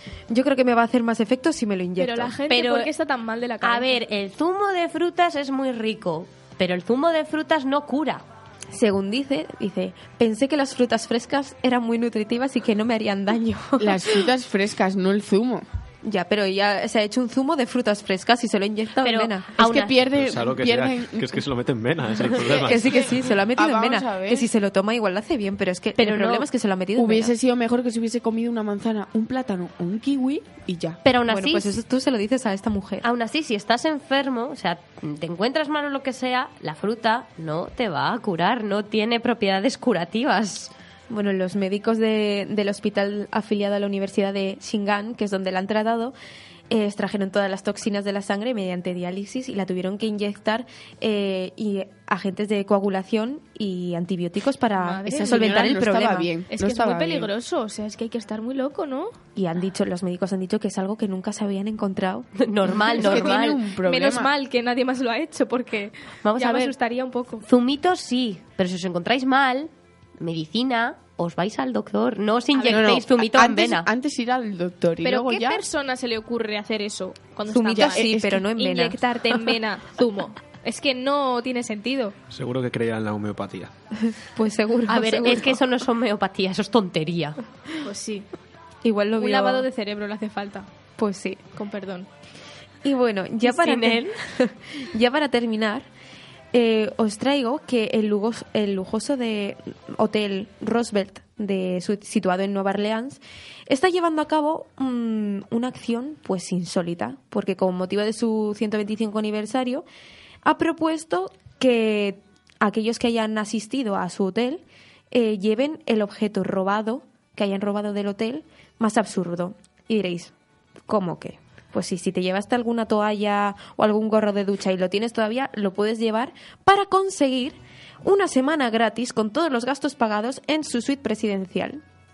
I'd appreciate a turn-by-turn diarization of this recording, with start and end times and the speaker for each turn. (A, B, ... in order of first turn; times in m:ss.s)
0:00.3-0:02.4 A
0:02.0-0:03.9 B
0:02.5-0:02.9 C
0:03.6-0:08.2 C
0:08.7-0:14.2 A
0:13.8-0:15.6 D
0:16.0-0:19.5 A
0:19.0-0:20.0 C
0:19.6-0:21.4 D
0:20.1-0:23.0 E
0:22.4-0:27.3 A
0:23.6-0:24.5 D
0:26.0-0:26.5 C
0:27.0-0:31.0 D
0:31.0-0:31.8 C
0:31.3-0:33.0 A
0:33.0-0:40.7 C
0:41.1-0:46.1 A
0:46.7-0:56.3 A
0:54.8-0:55.6 B
0:55.1-0:57.3 D
0:56.5-0:59.1 B
0:59.4-1:02.3 A
1:02.4-1:03.6 C
1:02.9-1:04.3 D
1:03.8-1:07.4 B
1:06.2-1:06.7 C
1:07.4-1:13.9 C
1:12.5-1:12.9 B
1:12.7-1:15.6 D
1:15.0-1:22.1 B
1:17.4-1:19.0 A
1:17.8-1:18.3 D
1:22.3-1:23.7 E
1:24.1-1:25.6 A
1:24.9-1:27.4 C
1:27.8-1:28.2 B
1:28.8-1:29.7 A
1:29.2-1:30.6 B
1:31.0-1:31.4 A
1:31.6-1:32.1 B
1:32.8-1:35.8 A
1:33.4-1:34.1 C
1:36.5-1:49.8 A
1:50.4-2:00.3 A
2:00.9-2:11.8 A